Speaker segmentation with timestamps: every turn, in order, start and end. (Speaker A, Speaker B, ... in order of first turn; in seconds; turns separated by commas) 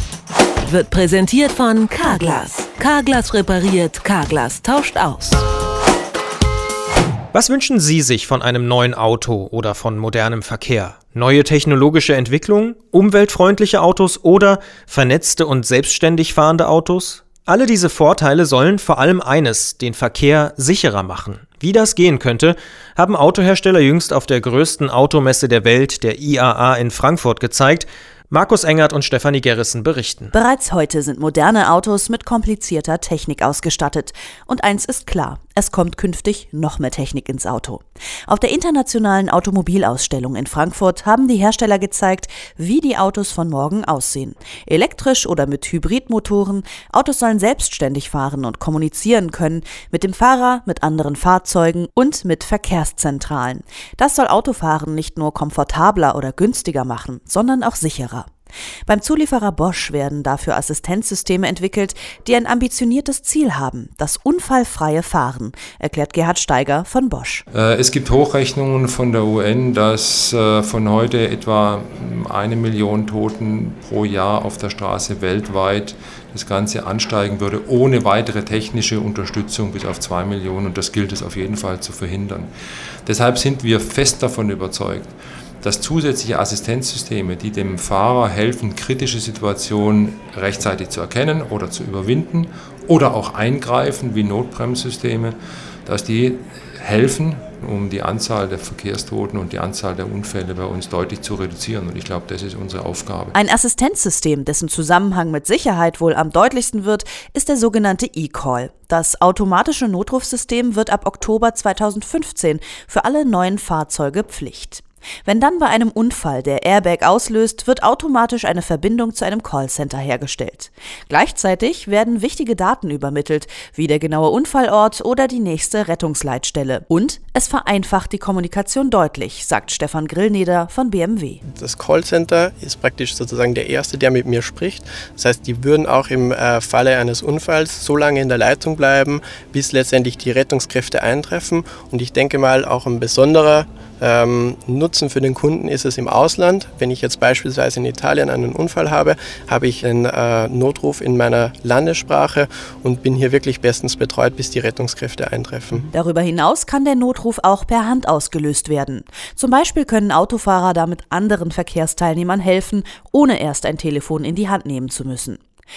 Speaker A: 0.7-5.4, Speaker B: 7.3-30.3, Speaker C: 30.3-58.3, Speaker C: 58.9-67.4, Speaker D: 67.5-82.5, Speaker D: 83.0-95.3, Speaker D: 95.8-103.3, Speaker C: 103.3-131.4, Speaker E: 131.6-155.8, Speaker C: 155.9-165.4